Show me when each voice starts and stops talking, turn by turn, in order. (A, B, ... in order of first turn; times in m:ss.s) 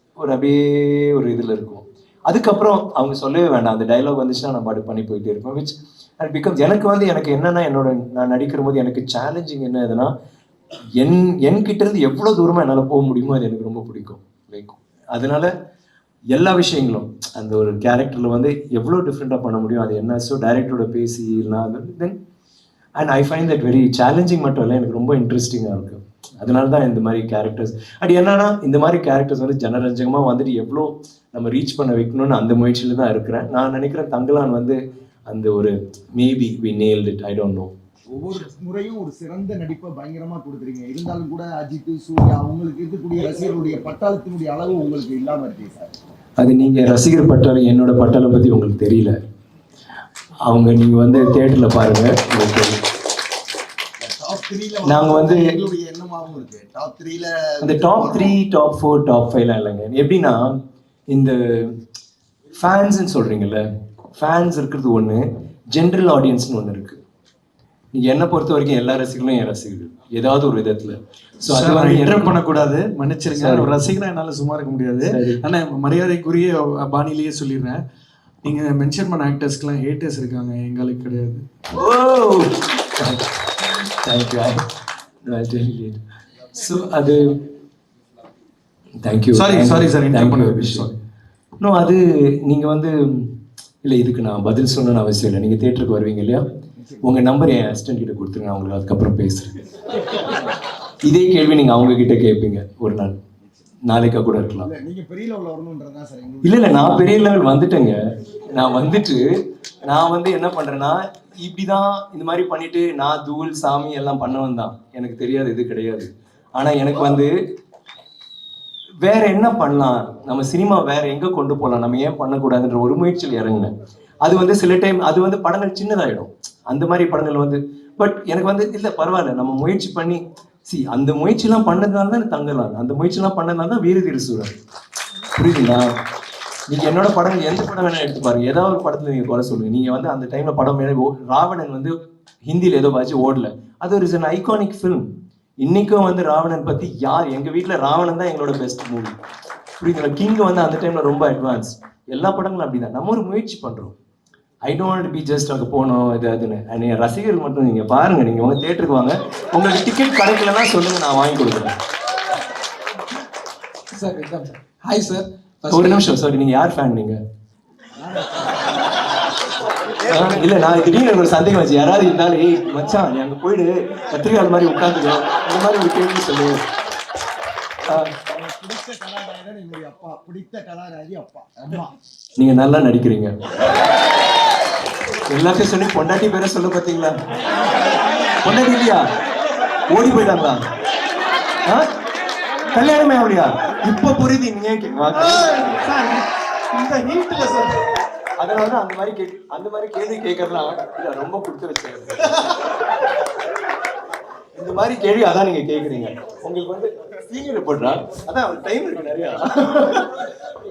0:00.2-0:10.1 A
0:11.0-0:15.5 A
0:16.3-0:22.2 A
0:23.0-0:34.8 A
0:35.3-0:37.7 A
0:38.1-0:45.9 B
0:46.4-0:49.2 A
0:50.4-0:52.8 A
0:54.0-0:58.4 B
0:54.8-0:55.5 A
0:57.6-1:00.6 A
1:01.1-1:01.7 A
1:02.6-1:07.0 A
1:08.0-1:12.4 A
1:11.4-1:17.8 C
1:13.3-1:13.7 A
1:15.1-1:15.4 A
1:18.4-1:21.4 C
1:21.7-1:24.6 A
1:25.3-1:26.0 A
1:26.5-1:27.4 A
1:29.0-1:30.9 A
1:29.3-1:31.0 C
1:31.6-1:36.4 A
1:37.0-1:39.5 A
1:41.0-1:43.2 A
1:43.8-1:44.7 A
1:44.6-1:47.0 B
1:46.4-1:49.2 A
1:49.8-1:57.4 A
1:59.0-2:03.7 A
2:04.2-2:14.5 A
2:15.4-2:16.0 A
2:16.7-2:22.0 A
2:22.5-2:25.1 A
2:25.6-2:29.1 A
2:29.8-2:34.0 A
2:34.6-2:41.7 A
2:43.9-2:46.1 D
2:45.7-2:47.2 A
2:48.0-2:48.7 B
2:50.0-2:50.4 B
2:50.1-2:56.6 A
2:57.9-2:58.1 A
2:58.3-3:01.9 B
3:02.4-3:03.4 A
3:05.3-3:07.2 A
3:08.4-3:09.1 A
3:09.9-3:10.6 A
3:12.7-3:15.9 A
3:15.1-3:17.8 C
3:18.4-3:22.6 A
3:24.6-3:30.1 A